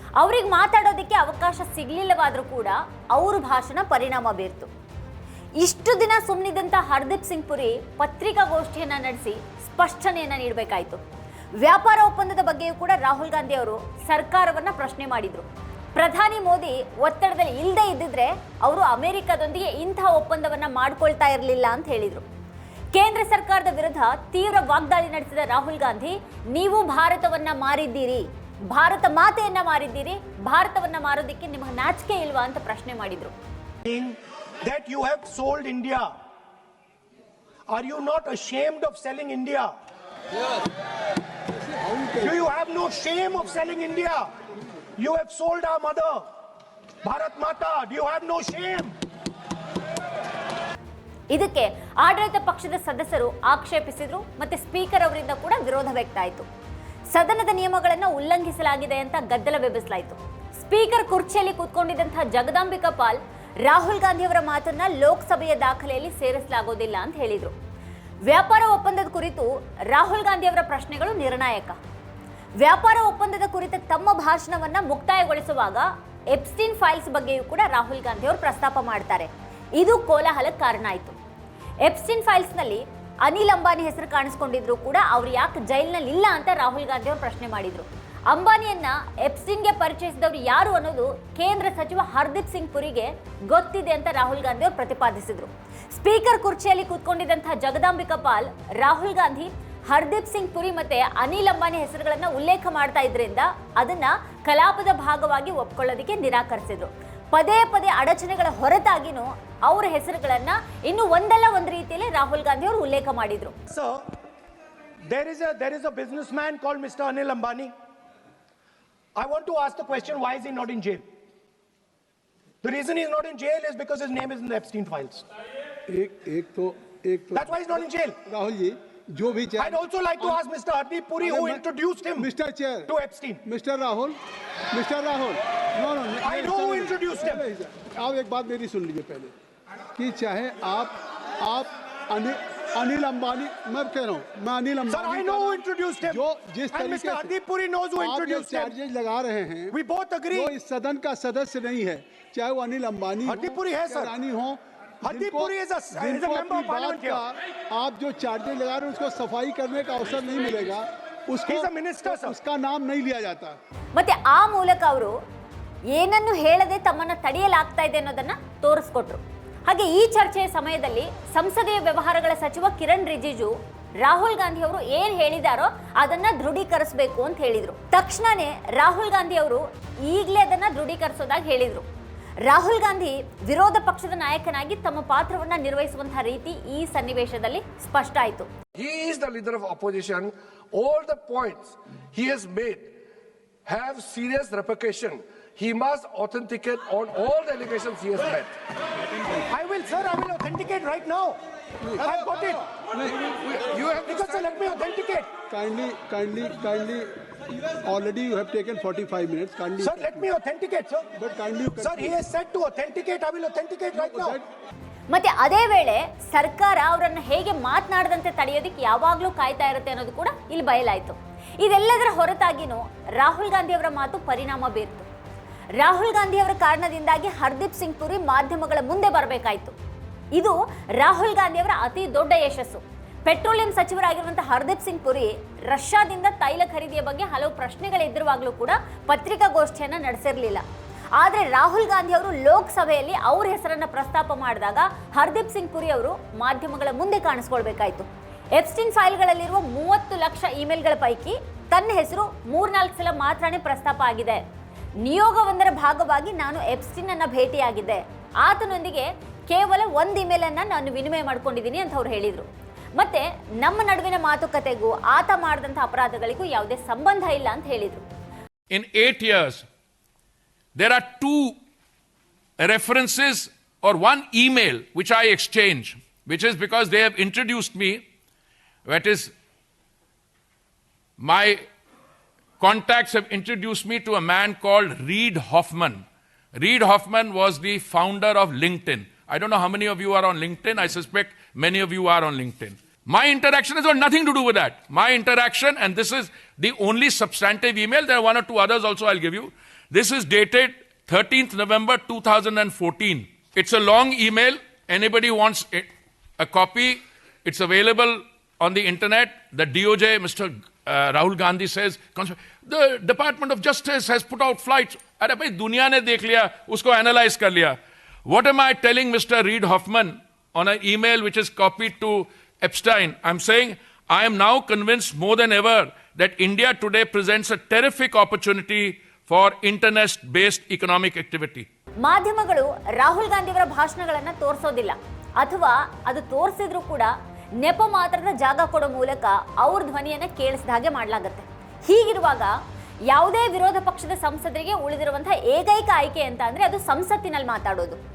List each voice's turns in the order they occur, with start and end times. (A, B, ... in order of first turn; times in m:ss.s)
0:00.2-0:04.7 A
0:05.6-0:11.0 A
0:11.6-0:22.2 A
0:22.9-0:33.3 A
0:33.8-0:36.1 B
0:37.7-0:39.7 B
0:41.5-0:42.4 C
0:42.2-0:44.3 B
0:45.0-0:46.2 B
0:47.0-0:48.9 B
0:51.3-0:56.4 A
0:57.1-1:07.5 A
1:08.3-1:11.8 A
1:12.6-1:21.2 A
1:21.8-1:53.6 A
1:53.7-1:54.0 B
1:55.1-1:57.7 B
1:59.2-2:01.0 B
2:02.6-2:05.3 B
2:05.9-2:10.4 C
2:07.3-2:08.2 B
2:09.6-2:12.3 B
2:11.2-2:11.6 C
2:12.2-2:12.9 C
2:12.9-2:13.4 B
2:13.4-2:14.2 C
2:14.7-2:19.3 C
2:16.2-2:17.4 B
2:20.0-2:27.3 C
2:24.9-2:28.8 B
2:28.0-2:29.8 C
2:29.7-2:30.5 B
2:30.3-2:43.6 C
2:33.3-2:34.1 B
2:35.0-2:37.2 B
2:41.5-2:42.3 B
2:44.0-2:45.2 A
2:45.9-3:01.8 A
3:02.4-3:08.5 A
3:08.8-3:12.8 D
3:13.7-3:18.5 D
3:19.5-3:21.4 B
3:22.0-3:22.6 B
3:23.1-3:24.1 D
3:24.0-3:25.3 B
3:25.5-3:27.1 C
3:27.8-3:30.3 C
3:29.8-3:31.1 B
3:31.2-3:32.2 C
3:31.8-3:34.4 B
3:34.0-3:34.4 C
3:35.1-3:45.1 A
3:45.8-3:49.8 A
3:50.3-4:00.6 A
4:01.2-4:14.4 A
4:15.0-4:28.0 A
4:28.7-4:29.6 E
4:30.8-4:31.6 E
4:32.6-4:38.0 E
4:38.9-4:39.3 E
4:41.2-4:41.6 E
4:42.6-4:46.0 E
4:46.6-5:05.9 E
5:06.4-5:31.7 E
5:32.0-5:42.5 A
5:43.1-5:48.0 A